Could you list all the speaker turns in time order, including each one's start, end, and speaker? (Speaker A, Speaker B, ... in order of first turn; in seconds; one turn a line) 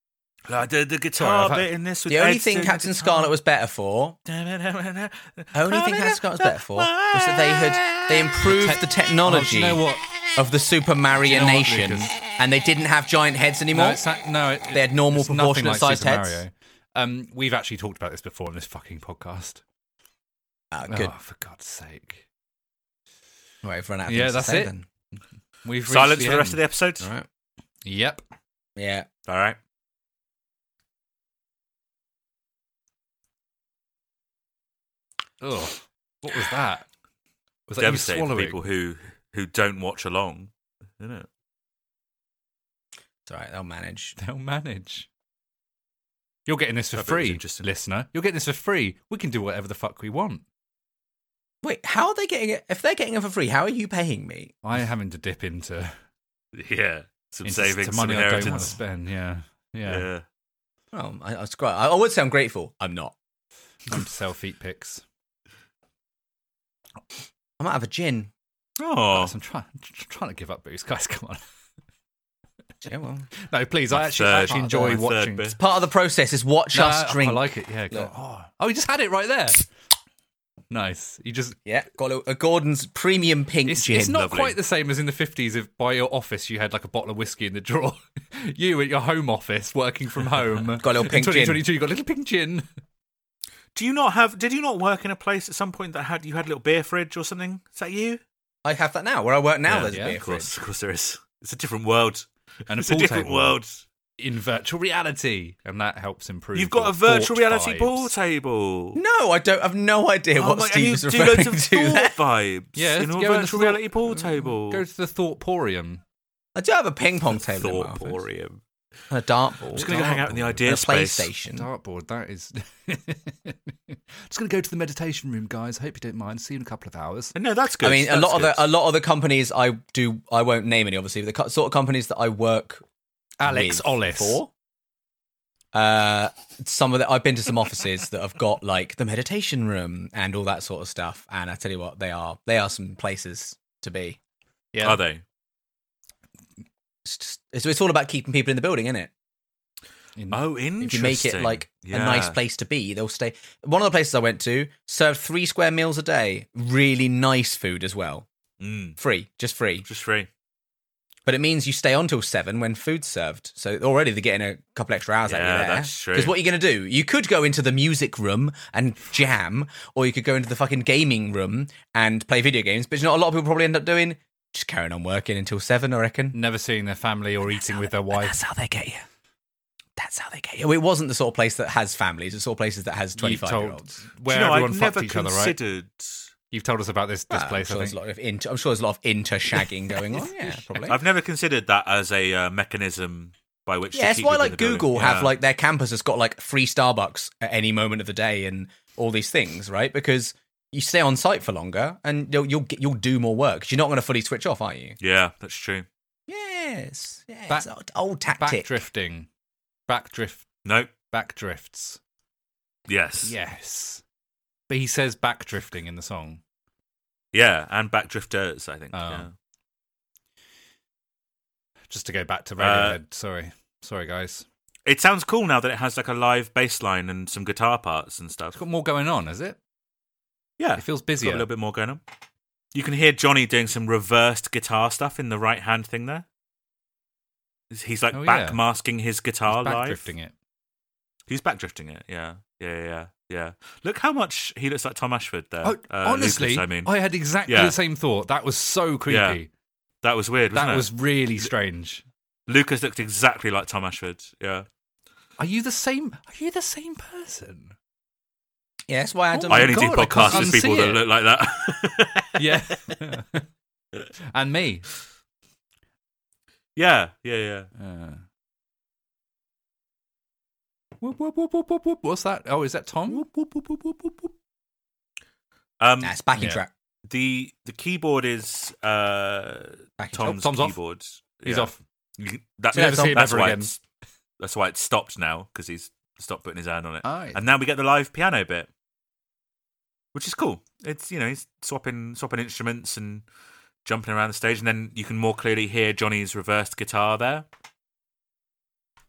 Speaker A: 0.5-3.3
Speaker B: 1.1-1.7
Speaker C: 2.1-4.2
Speaker A: 4.2-8.2
Speaker C: 5.5-9.8
Speaker B: 8.5-10.1
Speaker C: 10.3-14.0
Speaker B: 11.3-12.2
Speaker B: 13.7-19.6
Speaker C: 14.7-16.4
Speaker C: 20.7-21.1
Speaker B: 20.9-22.2
Speaker C: 23.6-24.9
Speaker B: 24.1-24.7
Speaker B: 25.6-26.6
Speaker A: 25.9-27.1
Speaker C: 27.0-27.2
Speaker B: 27.8-28.2
Speaker C: 28.8-29.1
Speaker A: 29.3-29.6
Speaker B: 35.4-36.8
Speaker B: 37.7-38.6
Speaker A: 37.8-41.3
Speaker C: 43.3-44.2
Speaker B: 44.2-45.1
Speaker B: 46.5-50.4
Speaker A: 46.9-47.6
Speaker C: 51.6-54.5
Speaker B: 54.6-55.9
Speaker A: 56.5-58.8
Speaker B: 57.4-60.1
Speaker A: 59.9-60.2
Speaker C: 60.9-63.1
Speaker B: 63.9-65.0
Speaker C: 67.6-68.3
Speaker A: 68.8-69.3
Speaker B: 69.1-71.4
Speaker C: 72.8-73.3
Speaker B: 73.5-75.5
Speaker A: 73.9-75.6
Speaker C: 74.4-75.0
Speaker C: 75.6-78.1
Speaker B: 76.7-79.7
Speaker B: 80.7-81.6
Speaker C: 81.7-84.3
Speaker B: 83.7-92.7
Speaker A: 84.1-84.6
Speaker C: 90.8-91.6
Speaker A: 93.7-98.2
Speaker C: 98.6-100.5
Speaker A: 99.7-103.8
Speaker B: 99.8-100.2
Speaker B: 102.7-103.6
Speaker B: 104.2-108.1
Speaker A: 106.5-109.0
Speaker C: 109.0-112.1
Speaker A: 110.3-114.8
Speaker B: 112.8-116.0
Speaker C: 116.5-118.2
Speaker A: 117.5-118.6
Speaker C: 119.1-119.9
Speaker B: 119.7-120.6
Speaker A: 119.7-121.3
Speaker C: 120.6-121.7
Speaker B: 121.5-127.3
Speaker A: 127.3-128.7
Speaker C: 127.8-132.8
Speaker B: 133.4-134.4
Speaker C: 133.4-134.5
Speaker C: 135.7-144.2
Speaker B: 144.7-145.0
Speaker A: 144.8-145.2
Speaker C: 147.0-149.1
Speaker A: 150.3-152.4
Speaker C: 150.8-158.2
Speaker A: 158.6-159.0
Speaker C: 159.0-159.8
Speaker A: 159.8-160.3
Speaker C: 161.2-176.3
Speaker A: 165.3-166.3
Speaker B: 176.3-178.4
Speaker C: 178.1-179.0
Speaker C: 180.0-183.8
Speaker B: 183.2-185.6
Speaker A: 184.3-186.3
Speaker B: 186.5-188.0
Speaker C: 187.3-191.0
Speaker B: 190.1-190.8
Speaker A: 190.8-195.3
Speaker C: 193.9-205.0
Speaker A: 205.0-205.8
Speaker C: 206.3-208.7
Speaker B: 208.4-209.3
Speaker B: 209.9-210.5
Speaker A: 210.6-210.9
Speaker B: 211.1-212.0
Speaker A: 212.9-213.3
Speaker B: 213.2-214.0
Speaker B: 214.7-216.4
Speaker A: 217.3-219.3
Speaker B: 218.9-219.3
Speaker B: 221.9-224.4
Speaker A: 222.6-223.0
Speaker A: 224.8-228.6
Speaker B: 228.5-229.6
Speaker A: 230.6-232.0
Speaker B: 230.8-231.5
Speaker A: 232.7-236.2
Speaker A: 237.7-240.1
Speaker B: 238.1-238.6
Speaker B: 239.5-240.3
Speaker A: 241.3-246.9
Speaker B: 245.6-249.5
Speaker A: 247.5-247.8
Speaker A: 249.1-249.4
Speaker A: 250.0-250.9
Speaker B: 250.5-252.0
Speaker A: 252.5-254.7
Speaker B: 255.4-257.7
Speaker C: 258.9-260.7
Speaker B: 259.3-261.0
Speaker A: 259.5-262.9
Speaker B: 262.4-263.4
Speaker B: 264.3-264.9
Speaker A: 266.8-267.7
Speaker B: 267.8-268.2
Speaker B: 271.0-273.3
Speaker A: 273.1-274.1
Speaker A: 275.8-276.2
Speaker C: 276.0-276.7
Speaker B: 276.4-276.6
Speaker A: 277.1-283.8
Speaker C: 280.0-280.4
Speaker B: 280.2-280.8
Speaker B: 281.4-281.8
Speaker B: 282.7-283.7
Speaker C: 282.8-283.2
Speaker A: 284.4-288.7
Speaker B: 287.0-287.4
Speaker A: 290.1-293.2
Speaker A: 293.8-297.5